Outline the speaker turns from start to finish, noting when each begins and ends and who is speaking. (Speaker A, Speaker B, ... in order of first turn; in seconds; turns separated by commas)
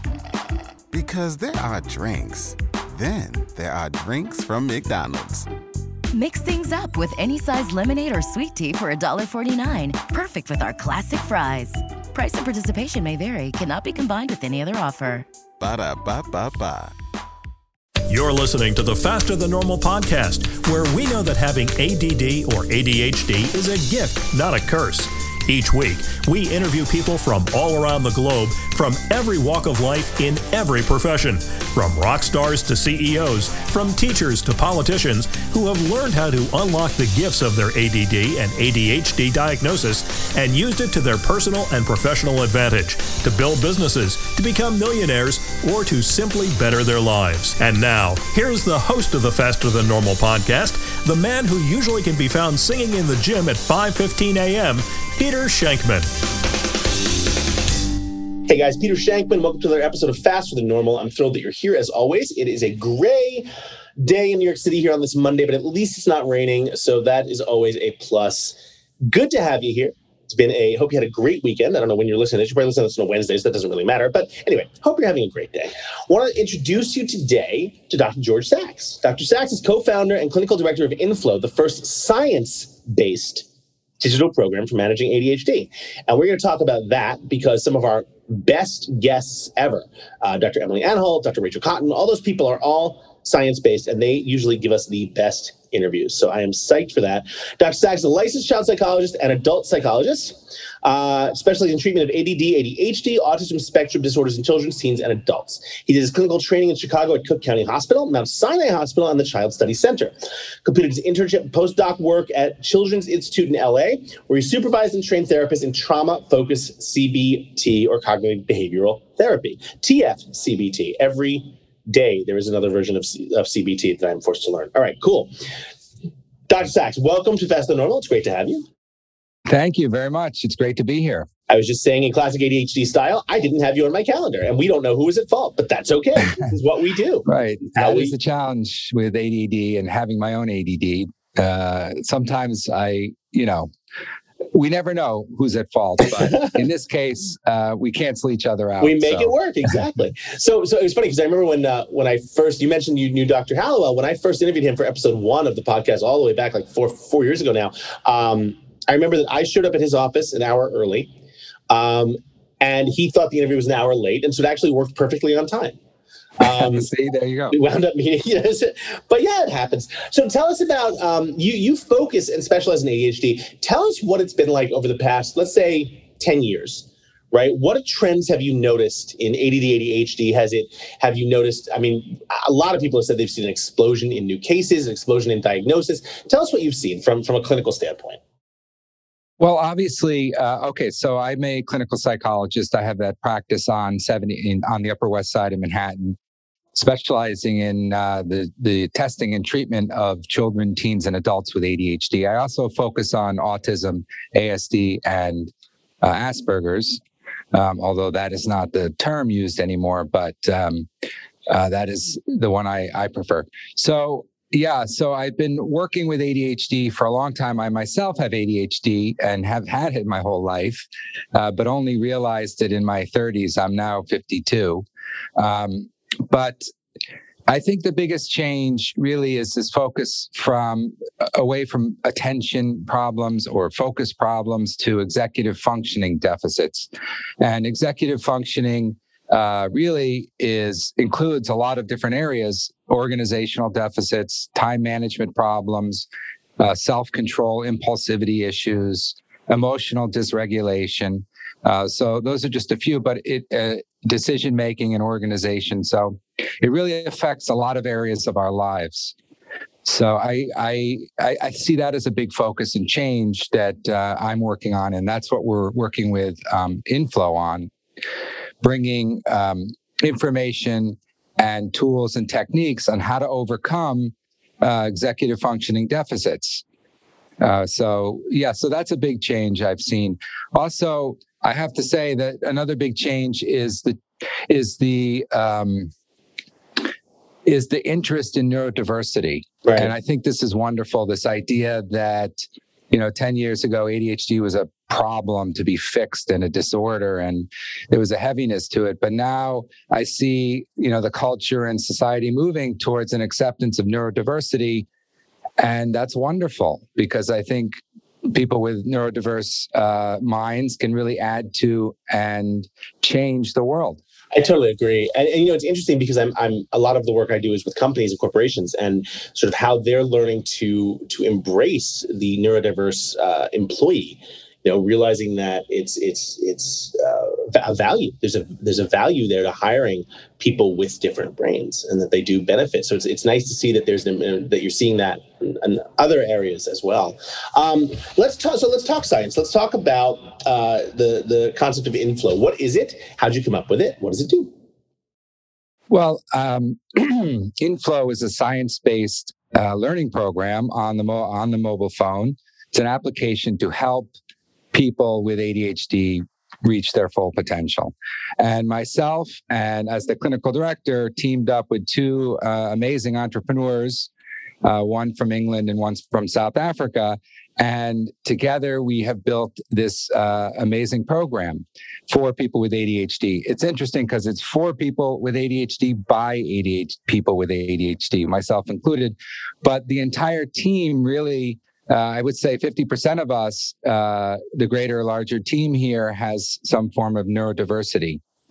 Speaker A: 0.9-5.5, Speaker B: 6.1-15.2, Speaker A: 15.6-16.9, Speaker C: 18.1-56.1, Speaker D: 58.5-63.5, Speaker D: 64.0-83.5, Speaker D: 84.0-125.3, Speaker D: 126.5-128.7, Speaker E: 129.5-131.3, Speaker D: 131.5-138.1, Speaker E: 137.2-143.7, Speaker E: 144.5-149.3, Speaker D: 148.8-161.1, Speaker D: 161.7-165.8, Speaker D: 166.4-166.9, Speaker E: 166.4-167.6, Speaker D: 167.5-188.2, Speaker E: 189.4-196.2, Speaker E: 196.7-205.5, Speaker E: 206.0-207.0, Speaker E: 207.5-210.9, Speaker E: 211.5-224.8, Speaker E: 225.4-226.6, Speaker E: 227.5-236.9, Speaker E: 237.4-246.1, Speaker E: 246.6-259.1, Speaker E: 259.8-267.7, Speaker E: 268.6-276.6, Speaker E: 277.4-284.0, Speaker E: 284.5-285.9, Speaker E: 287.4-292.4, Speaker D: 289.6-289.9, Speaker E: 292.9-304.9, Speaker E: 305.6-307.8, Speaker E: 308.3-314.0, Speaker D: 314.3-344.5, Speaker E: 345.9-354.1, Speaker E: 354.7-364.1, Speaker E: 364.6-388.2